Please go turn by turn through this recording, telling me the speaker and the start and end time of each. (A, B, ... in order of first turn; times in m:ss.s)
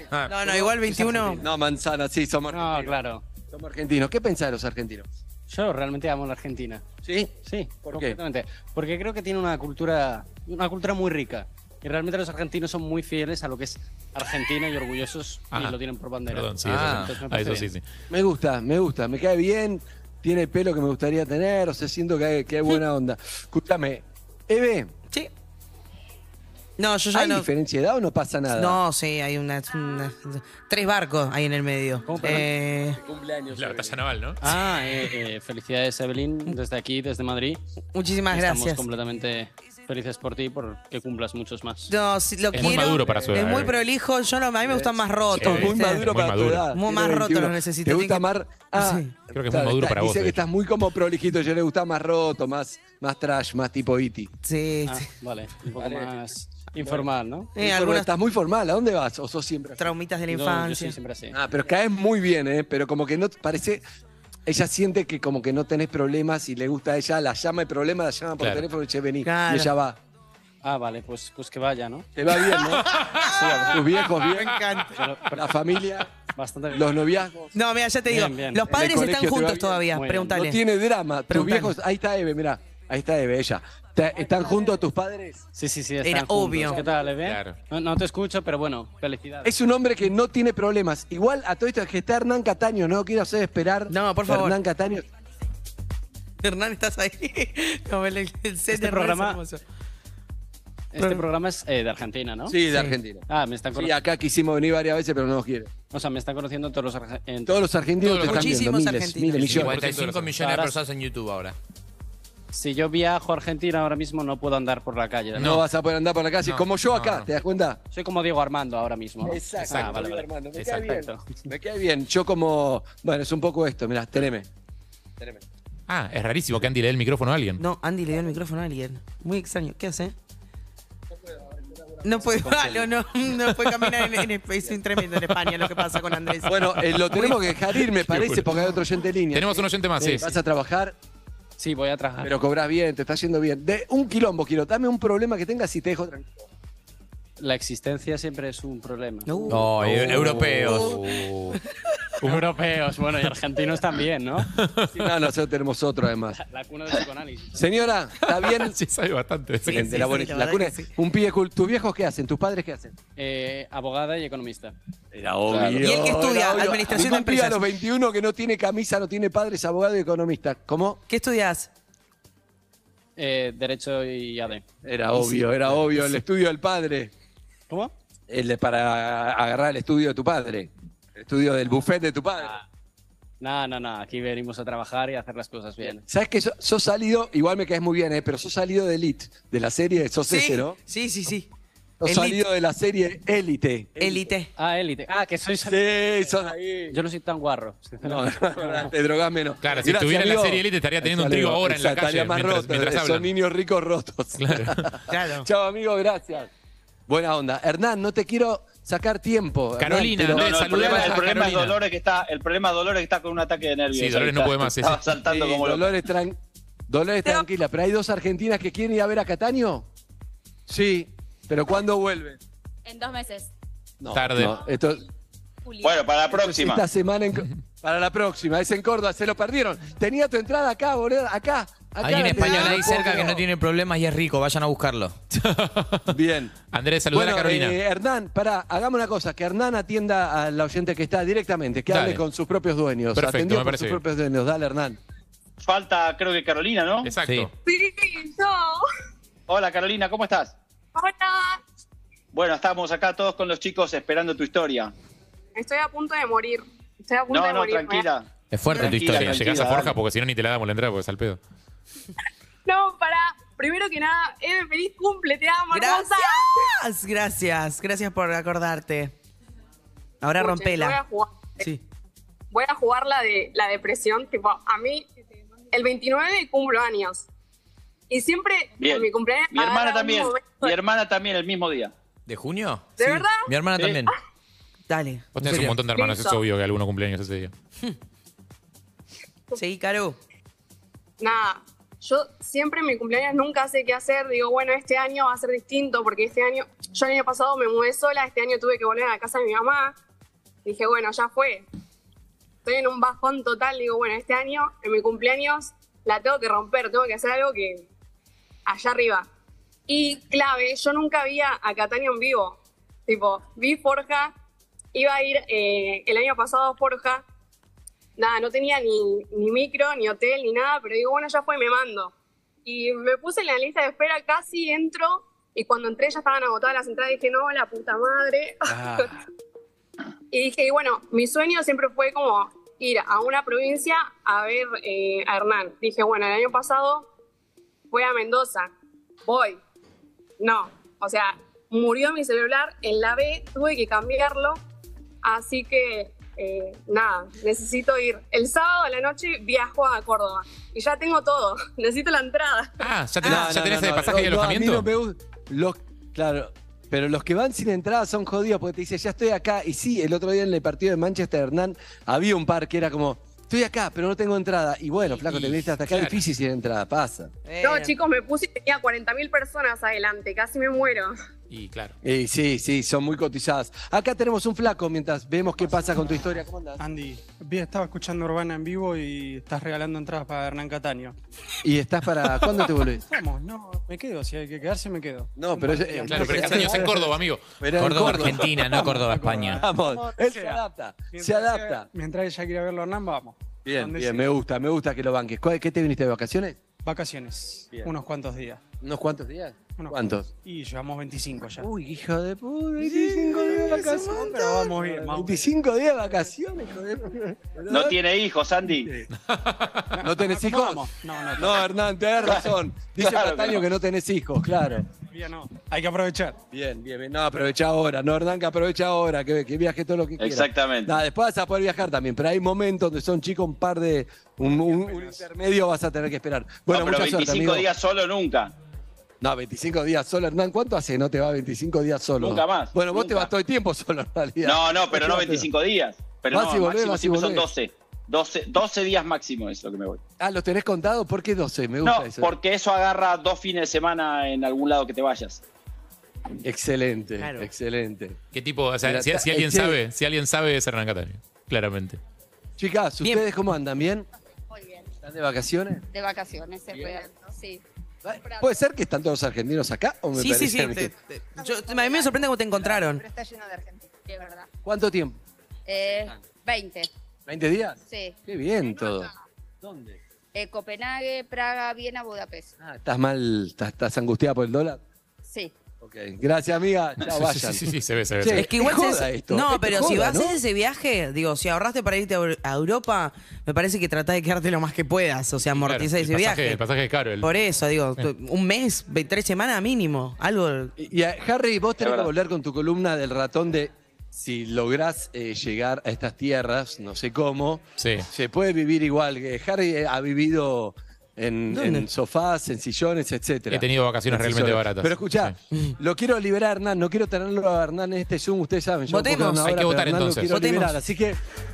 0:00.3-0:01.4 A
0:00.3-0:05.1 B
0:02.5-0:03.2 C
0:05.5-0:06.8 C
0:07.0-0:07.3 B
0:07.4-0:17.7 C
0:07.8-0:08.2 B
0:15.5-0:17.8 D
0:16.6-0:17.1 E
0:18.1-0:24.9 B
0:26.8-0:27.5 A
0:27.1-0:28.8 B
0:28.5-0:33.0 A
0:32.1-0:32.4 C
0:32.2-0:34.0 B
0:33.5-0:34.4 D
0:34.4-0:37.6 C
0:37.9-0:38.9 A
0:38.3-0:41.9 C
0:41.9-0:49.2 A
0:42.5-0:43.7 D
0:43.1-0:43.7 C
0:44.8-0:54.3 B
0:45.3-0:46.7 D
0:49.3-0:50.4 D
0:54.4-0:55.1 A
0:54.8-0:57.6 C
0:55.8-0:56.2 B
0:56.8-1:00.0 B
0:57.5-0:58.1 A
0:59.8-1:01.0 A
1:00.3-1:01.4 C
1:01.3-1:03.8 B
1:04.4-1:10.0 B
1:09.2-1:09.7 A
1:10.6-1:12.1 C
1:12.2-1:12.9 B
1:12.4-1:15.0 A
1:12.9-1:13.3 D
1:13.3-1:13.7 C
1:13.6-1:14.6 B
1:14.9-1:15.5 C
1:15.3-1:16.1 B
1:16.3-1:16.9 C
1:16.7-1:17.5 B
1:17.5-1:20.6 A
1:18.0-1:18.7 C
1:18.6-1:25.4 B
1:19.9-1:20.3 C
1:21.3-1:21.7 A
1:25.6-1:29.5 C
1:26.0-1:26.9 A
1:27.2-1:27.6 D
1:29.4-1:35.0 B
1:33.9-1:34.6 A
1:36.4-1:39.6 A
1:38.7-1:39.4 C
1:40.9-1:42.6 C
1:41.0-1:41.2 A
1:42.5-1:45.7 B
1:42.7-1:43.0 A
1:43.3-1:44.0 C
1:45.9-1:47.6 C
1:47.4-1:49.8 B
1:48.0-1:48.5 D
1:48.1-1:49.6 A
1:49.4-1:50.4 D
1:49.5-1:51.6 E
1:50.4-1:50.7 C
1:52.5-1:55.6 C
1:55.4-1:55.6 D
1:55.4-1:57.8 B
1:56.4-1:57.3 D
1:57.9-2:01.2 C
1:59.2-2:04.5 B
1:59.6-2:00.0 D
2:00.6-2:00.9 D
2:05.9-2:07.6 D
2:07.6-2:10.1 A
2:11.9-2:12.9 B
2:12.0-2:17.4 A
2:16.4-2:21.0 B
2:17.9-2:18.6 D
2:19.3-2:20.3 D
2:21.6-2:22.3 C
2:22.2-2:26.3 B
2:27.4-2:29.5 C
2:29.2-2:31.6 A
2:29.5-2:31.0 E
2:29.8-2:30.9 B
2:30.6-2:31.6 D
2:32.2-2:34.5 C
2:32.2-2:32.5 D
2:34.4-2:35.1 D
2:34.9-2:36.4 B
2:36.3-2:37.6 C
2:37.5-2:38.8 B
2:38.2-2:39.9 D
2:39.6-2:40.9 A
2:39.7-2:42.9 B
2:43.2-2:44.7 C
2:45.1-2:51.0 B
2:45.5-2:45.8 F
2:45.8-2:47.6 A
2:51.1-2:51.7 A
2:53.2-2:54.7 C
2:54.8-2:57.1 B
2:55.1-2:55.4 A
2:58.3-3:02.6 B
3:03.4-3:06.0 C
3:06.0-3:10.8 B
3:10.2-3:11.5 A
3:12.0-3:14.3 B
3:12.0-3:12.4 A
3:14.0-3:14.5 A
3:14.6-3:15.8 C
3:15.6-3:17.0 B
3:16.9-3:18.9 C
3:18.0-3:26.5 B
3:19.6-3:23.3 D
3:24.4-3:24.9 D
3:25.1-3:25.5 A
3:27.1-3:31.2 B
3:29.8-3:31.8 D
3:30.3-3:36.0 F
3:33.9-3:35.1 D
3:35.2-3:39.8 B
3:40.7-3:42.4 B
3:42.8-3:43.5 G
3:44.0-3:45.0 B
3:44.1-3:44.6 D
3:45.6-3:46.1 G
3:45.8-3:46.8 F
3:46.3-3:53.4 B
3:52.0-3:55.2 E
3:55.3-3:56.1 D
3:56.1-3:56.5 B
3:56.7-3:57.8 D
3:57.1-4:05.0 B
4:01.9-4:02.2 D
4:03.1-4:04.0 D
4:05.6-4:07.1 F
4:07.0-4:07.5 D
4:07.2-4:07.5 E
4:07.6-4:08.8 H
4:09.5-4:10.5 F
4:10.9-4:11.6 H
4:12.3-4:14.9 F
4:15.5-4:18.1 H
4:17.3-4:20.0 F
4:18.5-4:19.4 E
4:18.7-4:21.4 D
4:22.6-4:26.6 H
4:25.7-4:29.1 A
4:30.2-4:31.0 A
4:30.4-4:31.7 H
4:32.5-4:35.1 H
4:35.7-4:37.2 H
4:38.1-4:40.8 H
4:38.8-4:41.9 F
4:42.2-4:44.1 E
4:43.0-4:43.5 H
4:43.8-4:44.0 F
4:44.9-4:45.3 A
4:45.3-4:47.5 D
4:45.4-4:45.8 E
4:45.9-4:46.4 H
4:49.6-4:50.2 A
4:51.2-5:00.0 H
5:00.6-5:01.6 H
5:02.6-5:07.9 H
5:08.6-5:09.3 H
5:09.9-5:14.3 H
5:14.9-5:17.2 H
5:18.2-5:22.1 H
5:22.6-5:29.0 H
5:28.7-5:29.2 B
5:30.3-5:37.1 H
5:37.9-5:38.7 H
5:39.2-5:39.6 H
5:40.4-5:44.6 H
5:45.2-5:52.8 H
5:52.8-5:54.8 D
5:53.2-5:53.5 A
5:53.2-6:07.3 B
6:05.2-6:06.2 D
6:07.4-6:07.9 A
6:07.6-6:11.1 H
6:11.5-6:11.9 D
6:12.0-6:16.8 B
6:16.8-6:21.1 I
6:21.6-6:23.0 B
6:23.1-6:26.1 I
6:25.4-6:28.7 B
6:25.7-6:26.7 C
6:26.0-6:28.4 D
6:27.7-6:29.6 E
6:28.7-6:29.0 C
6:28.7-6:29.6 I
6:29.6-6:31.9 B
6:29.6-6:30.6 C
6:31.2-6:31.9 C
6:31.9-6:34.2 I
6:33.6-6:36.6 B
6:36.8-6:38.6 I
6:38.8-6:40.3 B
6:40.4-6:41.6 I
6:41.6-6:48.0 B
6:43.0-6:45.3 C
6:44.2-6:45.2 I
6:47.7-6:48.9 F
6:48.6-6:49.1 B
6:49.2-6:50.0 D
6:50.0-6:54.9 B
6:50.2-6:51.5 C
6:50.3-6:51.4 I
6:53.0-6:53.6 F
6:55.1-6:55.7 C
6:55.8-6:56.3 I
6:56.5-7:07.7 B
7:00.2-7:00.9 F
7:04.9-7:05.1 C
7:06.7-7:08.5 F
7:09.2-7:15.5 B
7:12.2-7:13.3 F
7:14.4-7:20.0 F
7:16.3-7:17.5 B
7:20.2-7:22.3 B
7:21.8-7:25.4 F
7:26.4-7:28.2 B
7:27.2-7:27.5 A
7:28.3-7:32.0 D
7:28.8-7:29.8 B
7:32.6-7:34.0 B
7:34.5-7:34.9 G
7:35.0-7:35.8 B
7:35.9-7:37.6 G
7:36.7-7:37.0 B
7:38.0-7:40.9 B
7:38.2-7:38.7 G
7:40.1-7:43.0 A
7:41.4-7:44.5 G
7:44.6-7:45.2 B
7:45.7-7:46.9 G
7:47.3-7:49.1 B
7:47.9-7:49.1 G
7:49.6-7:50.0 B
7:50.3-7:52.5 G
7:52.6-7:54.8 B
7:55.2-7:55.5 G
7:55.8-7:57.6 B
7:57.0-7:58.5 D
7:58.2-8:00.4 B
7:58.3-8:06.6 A
8:05.5-8:07.3 D
8:07.2-8:10.7 A
8:10.8-8:31.2 B
8:11.8-8:12.1 F
8:17.8-8:18.1 D
8:21.5-8:21.9 A
8:23.5-8:25.3 D
8:28.9-8:29.5 A
8:29.4-8:30.3 D
8:30.2-8:30.8 A